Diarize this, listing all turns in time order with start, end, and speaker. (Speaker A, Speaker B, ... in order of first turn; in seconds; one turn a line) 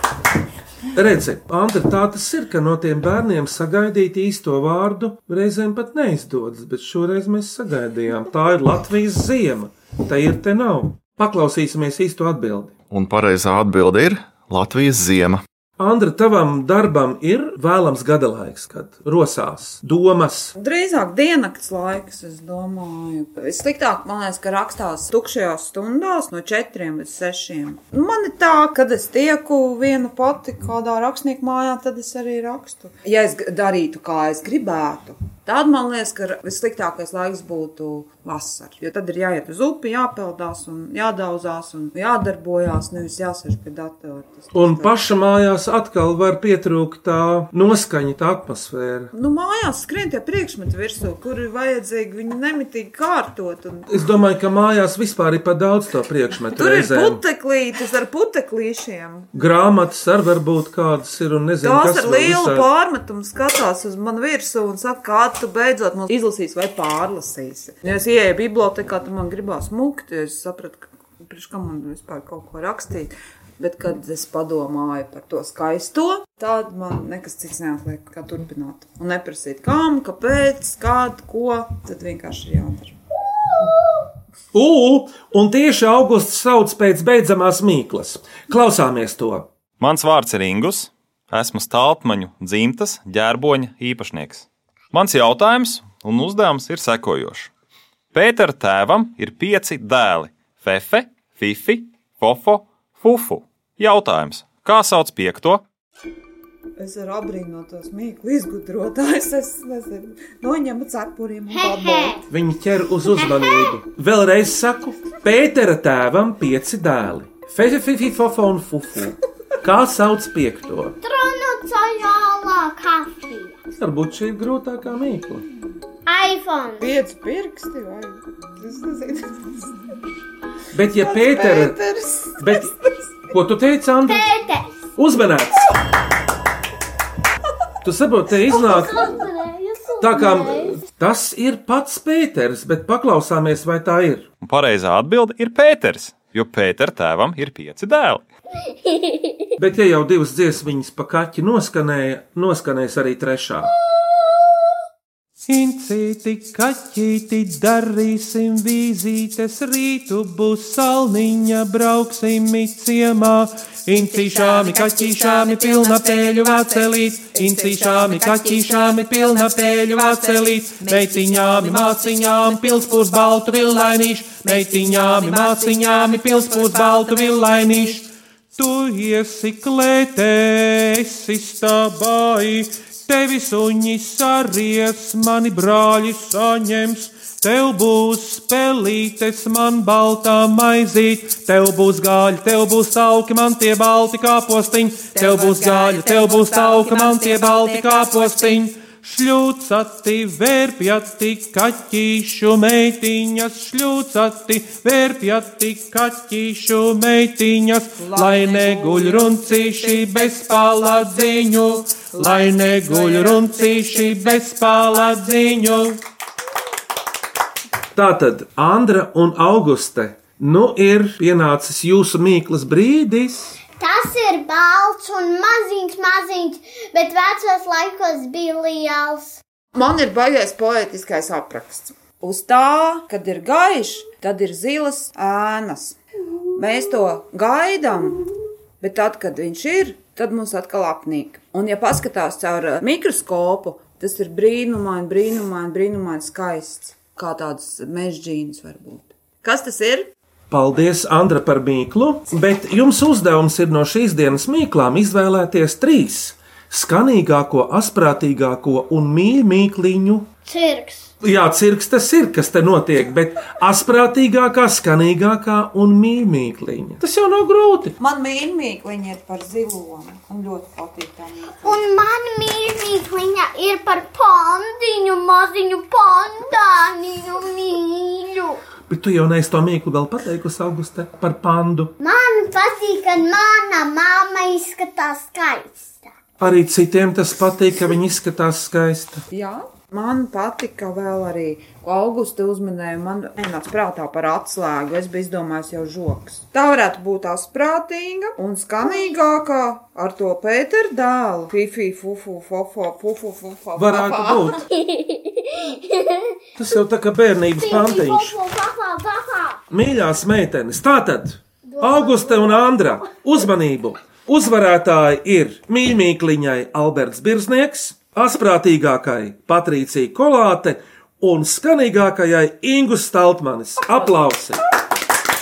Speaker A: 0.9-12.7
Speaker B: 12.9-15.4
Speaker A: 15.8-20.5
Speaker C: 20.6-44.9
Speaker A: 44.5-49.1
Speaker C: 49.1-53.9
Speaker A: 53.9-57.2
Speaker C: 56.5-59.3
Speaker A: 59.3-62.7
Speaker C: 61.6-82.9
Speaker A: 84.5-89.5
Speaker D: 89.8-97.5
Speaker D: 98.1-105.6
Speaker C: 106.8-112.2
Speaker E: 111.5-112.2
Speaker A: 112.3-121.0
Speaker E: 113.2-113.8
Speaker E: 121.0-123.6
Speaker A: 123.8-125.5
Speaker E: 126.0-126.9
Speaker C: 126.8-129.5
Speaker A: 130.7-131.8
Speaker C: 131.0-132.7
Speaker A: 132.4-132.7
Speaker A: 133.3-134.3
Speaker E: 134.1-134.8
Speaker A: 134.9-135.7
Speaker A: 137.8-139.2
Speaker E: 138.5-140.8
Speaker A: 140.0-144.3
Speaker D: 144.4-148.2
Speaker E: 148.7-149.3
Speaker A: 149.6-153.7
Speaker A: 155.5-216.0
Speaker A: 217.9-223.6
Speaker E: 223.8-229.4
Speaker C: 229.7-236.0
Speaker C: 236.5-238.2
Speaker C: 238.8-250.1
Speaker A: 250.5-260.3
Speaker E: 260.4-261.1
Speaker A: 261.2-267.9
Speaker C: 268.0-271.8
Speaker E: 271.6-278.6
Speaker A: 278.9-281.9
Speaker E: 282.0-286.1
Speaker A: 286.4-289.2
Speaker C: 289.3-304.6
Speaker A: 303.8-304.6
Speaker E: 304.8-306.4
Speaker A: 306.6-308.3
Speaker E: 307.6-309.6
Speaker A: 309.7-324.6
Speaker E: 311.7-313.1